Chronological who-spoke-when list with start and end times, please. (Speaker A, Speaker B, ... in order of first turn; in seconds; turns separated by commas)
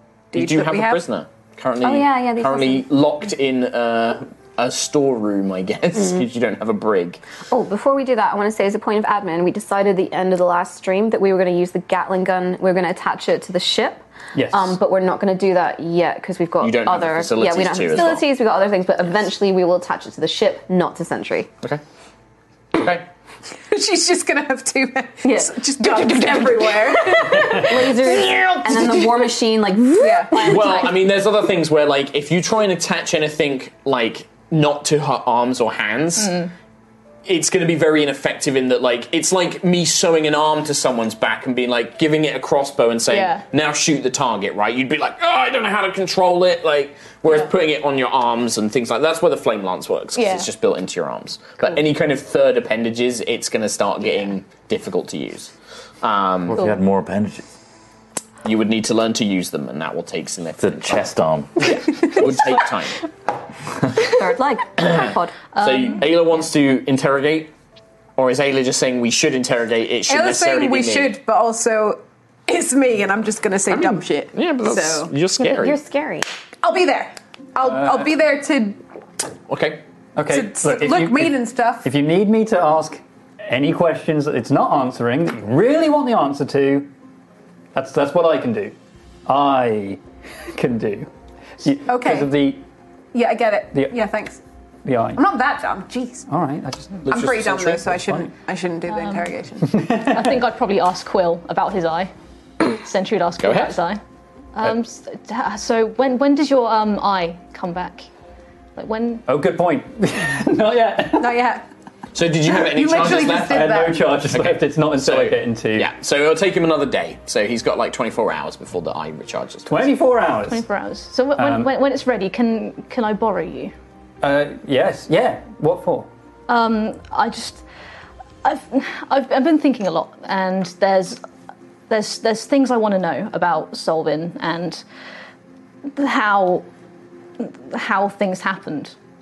Speaker A: 0.3-1.0, Speaker B: 0.3-7.2, Speaker C: 1.8-2.9, Speaker C: 6.0-6.2, Speaker C: 7.5-21.5, Speaker D: 14.3-14.8, Speaker B: 16.6-18.3, Speaker B: 22.7-23.1, Speaker A: 23.7-29.3, Speaker C: 25.2-26.3, Speaker C: 27.1-31.1, Speaker A: 30.0-30.8, Speaker B: 30.4-36.5, Speaker E: 36.2-36.5, Speaker B: 37.2-56.6, Speaker E: 43.1-43.4, Speaker E: 50.2-50.5, Speaker F: 56.5-57.4, Speaker B: 58.4-63.0, Speaker F: 60.6-61.8, Speaker C: 64.0-65.3, Speaker B: 64.8-67.5, Speaker E: 65.6-66.0, Speaker B: 68.2-71.2, Speaker A: 70.1-75.1, Speaker B: 73.7-75.8, Speaker C: 75.4-76.3, Speaker A: 76.6-78.8, Speaker D: 77.7-78.0, Speaker B: 79.5-79.8, Speaker D: 80.2-86.9, Speaker A: 80.3-81.9, Speaker D: 87.8-88.8, Speaker D: 89.3-90.0, Speaker D: 90.5-92.6, Speaker A: 91.9-92.3, Speaker A: 93.1-94.4, Speaker D: 94.8-95.2, Speaker A: 95.2-96.3, Speaker D: 96.3-98.3, Speaker A: 97.0-99.8, Speaker B: 97.1-98.0, Speaker E: 98.9-99.3, Speaker D: 99.7-100.4, Speaker E: 100.0-104.0, Speaker B: 103.4-103.8, Speaker E: 104.5-108.1, Speaker E: 108.8-109.2, Speaker D: 109.3-111.5, Speaker A: 111.2-111.6, Speaker B: 112.1-119.9, Speaker A: 112.5-114.1, Speaker D: 113.4-115.9, Speaker D: 119.7-120.6, Speaker E: 120.4-123.7, Speaker D: 121.4-121.7, Speaker D: 124.2-126.1, Speaker E: 126.5-127.6, Speaker E: 128.4-131.2, Speaker E: 131.9-134.8, Speaker E: 135.9-136.7, Speaker E: 137.4-138.9